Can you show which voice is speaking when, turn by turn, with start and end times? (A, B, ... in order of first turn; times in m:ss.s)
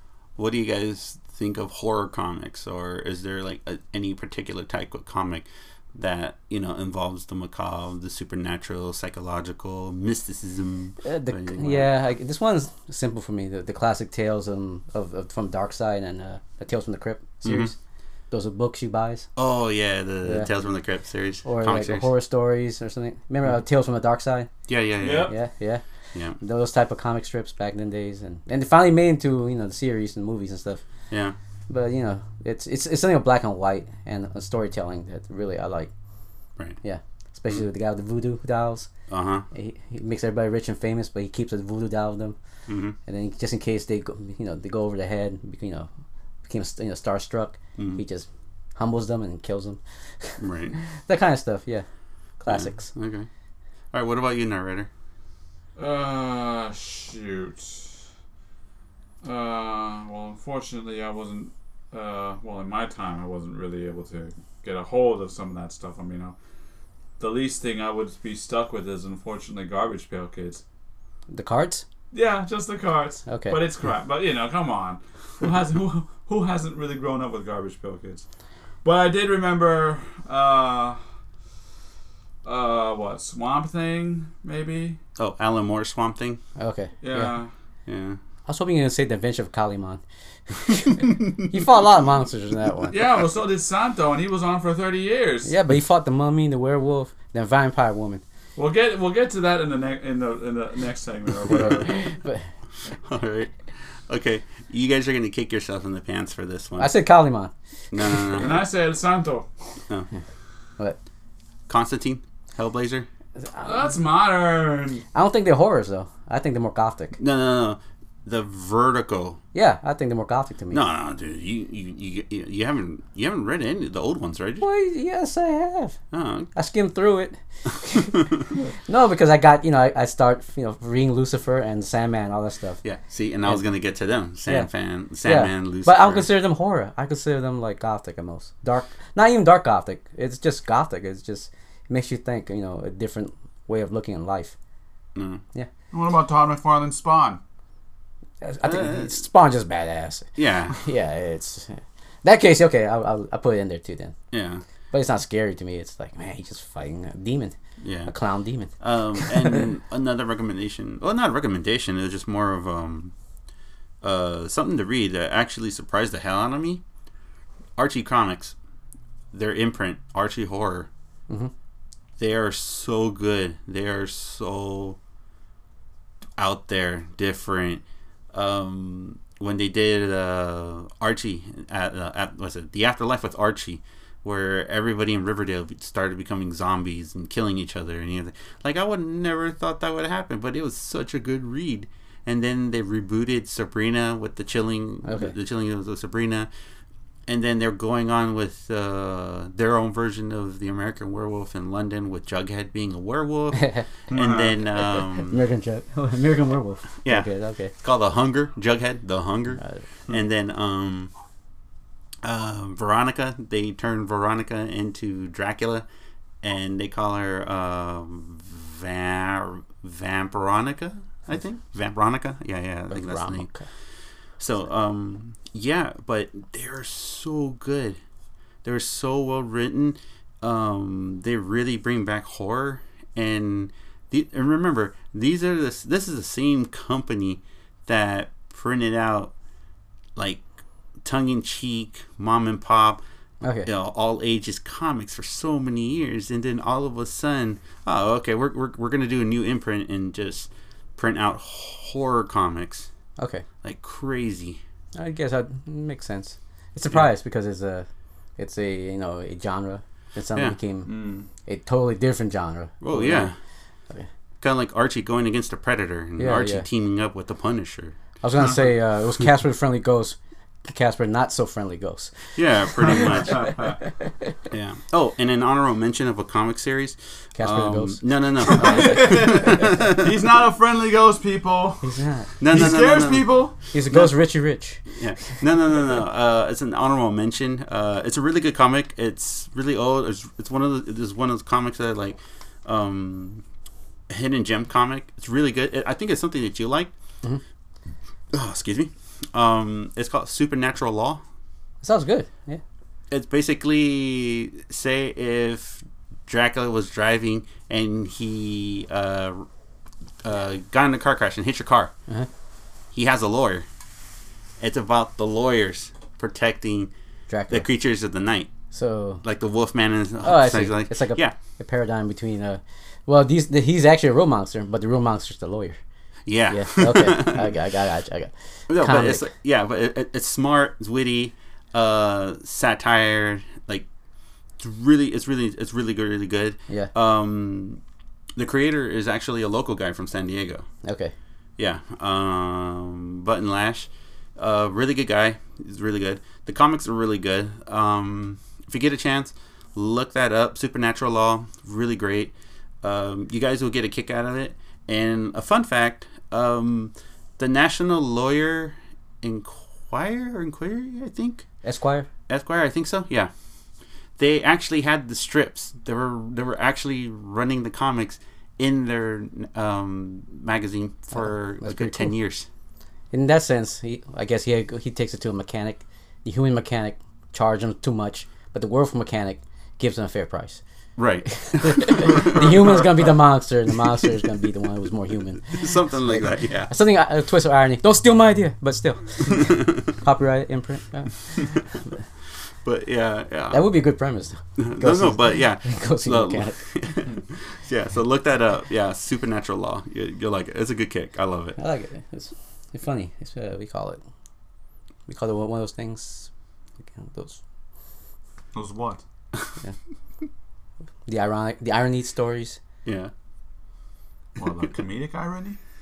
0:00.4-0:11.9 A
0:11.0-0:17.8 B
0:17.4-0:17.7 A
0:18.3-0:19.3 B
0:19.4-0:22.1 A
0:20.2-0:20.6 B
0:21.4-0:24.5 B
0:24.7-0:25.4 A
0:25.0-0:25.3 C
0:25.2-0:25.8 B
0:26.4-0:30.8 B
0:31.1-0:31.4 A
0:31.7-0:35.9 B
0:36.8-0:38.9 B
0:39.1-0:39.5 A
0:39.5-0:42.4 B
0:42.7-0:43.0 A
0:43.1-0:45.9 B
0:46.5-0:51.8 B
0:50.4-0:50.8 A
0:52.4-0:52.9 B
0:52.5-0:53.3 A
0:53.9-0:54.9 A
0:55.8-0:58.0 C
0:59.2-1:06.4 C
1:07.2-1:10.6 C
1:11.3-1:11.8 B
1:12.1-1:18.2 C
1:13.3-1:13.6 B
1:18.8-1:21.0 C
1:22.4-1:25.0 C
1:25.2-1:26.4 A
1:26.6-1:27.4 B
1:27.0-1:27.5 C
1:27.9-1:28.2 A
1:28.5-1:33.0 B
1:32.9-1:35.5 C
1:35.5-1:38.2 B
1:38.6-1:42.0 C
1:41.5-1:42.4 B
1:42.9-1:43.6 A
1:44.1-1:46.9 A
1:46.8-1:48.3 B
1:47.9-1:48.6 A
1:48.3-1:49.5 C
1:51.7-1:53.1 A
1:53.6-1:55.0 C
1:55.1-1:57.2 B
1:57.2-1:59.4 A
1:59.5-2:00.8 B
2:00.7-2:04.7 A
2:04.6-2:06.0 B
2:06.1-2:06.5 A
2:06.6-2:12.8 B
2:12.8-2:16.3 A
2:15.2-2:24.6 B
2:25.2-2:25.4 A
2:25.9-2:27.4 C
2:28.4-2:34.2 B
2:28.6-2:29.2 A
2:30.4-2:30.8 A
2:34.3-2:34.6 A
2:34.9-2:37.5 B
2:37.8-2:38.1 A
2:38.1-2:39.7 B
2:38.8-2:43.1 A
2:44.0-2:46.8 A
2:47.8-2:48.6 A
2:49.3-2:50.9 A
2:52.2-2:55.0 A
2:56.4-3:16.5 A
3:15.0-3:15.3 B
3:17.3-3:25.4 A
3:23.6-3:23.9 B
3:24.1-3:24.6 C
3:24.8-3:27.7 B
3:27.0-3:31.1 A
3:32.2-3:35.9 A
3:36.4-3:43.5 A
3:42.9-3:43.7 B
3:44.4-3:48.0 A
3:48.6-3:59.3 A
4:00.2-4:00.4 A
4:01.0-4:03.0 A
4:03.4-4:03.7 B
4:03.7-4:12.9 A
4:13.2-4:13.4 B
4:13.6-4:14.6 A
4:15.0-4:17.9 B
4:18.4-4:23.3 B
4:20.9-4:21.3 C
4:22.8-4:23.4 A
4:24.4-4:28.0 A
4:26.2-4:26.7 B
4:28.2-4:34.3 B
4:32.4-4:33.5 A
4:33.3-4:33.8 C
4:34.5-4:40.1 A
4:37.4-4:39.7 B
4:38.5-4:43.6 C
4:41.8-4:42.3 B
4:42.4-4:43.3 A
4:43.7-4:45.4 B
4:44.9-4:53.4 A
4:54.1-4:56.9 A
4:58.3-5:01.2 A
5:01.8-5:02.6 B
5:03.1-5:09.5 A
5:10.2-5:11.9 A
5:12.9-5:13.7 A
5:14.6-5:16.9 A
5:17.3-5:17.7 B
5:17.5-5:18.5 A
5:18.7-5:19.2 B
5:19.2-5:21.4 A
5:20.2-5:25.8 B
5:26.3-5:27.5 A
5:26.5-5:29.3 B
5:28.7-5:33.9 A
5:34.6-5:37.8 A
5:38.4-5:40.7 A
5:40.8-5:41.1 B
5:41.6-6:01.5 A
6:01.6-6:02.1 B
6:02.3-6:03.3 A
6:04.2-6:12.5 A
6:11.2-6:12.1 B
6:13.1-6:20.6 B
6:21.0-6:23.1 A
6:21.3-6:32.0 B
6:25.5-6:26.7 A
6:29.3-6:29.8 A
6:32.6-6:33.7 A
6:33.5-6:36.6 B
6:34.6-6:41.6 A
6:41.6-6:44.0 B
6:45.1-6:46.3 B
6:46.9-6:47.4 B
6:48.5-6:49.0 C
6:51.1-6:52.6 B
6:52.8-6:53.1 A
6:54.4-6:55.6 C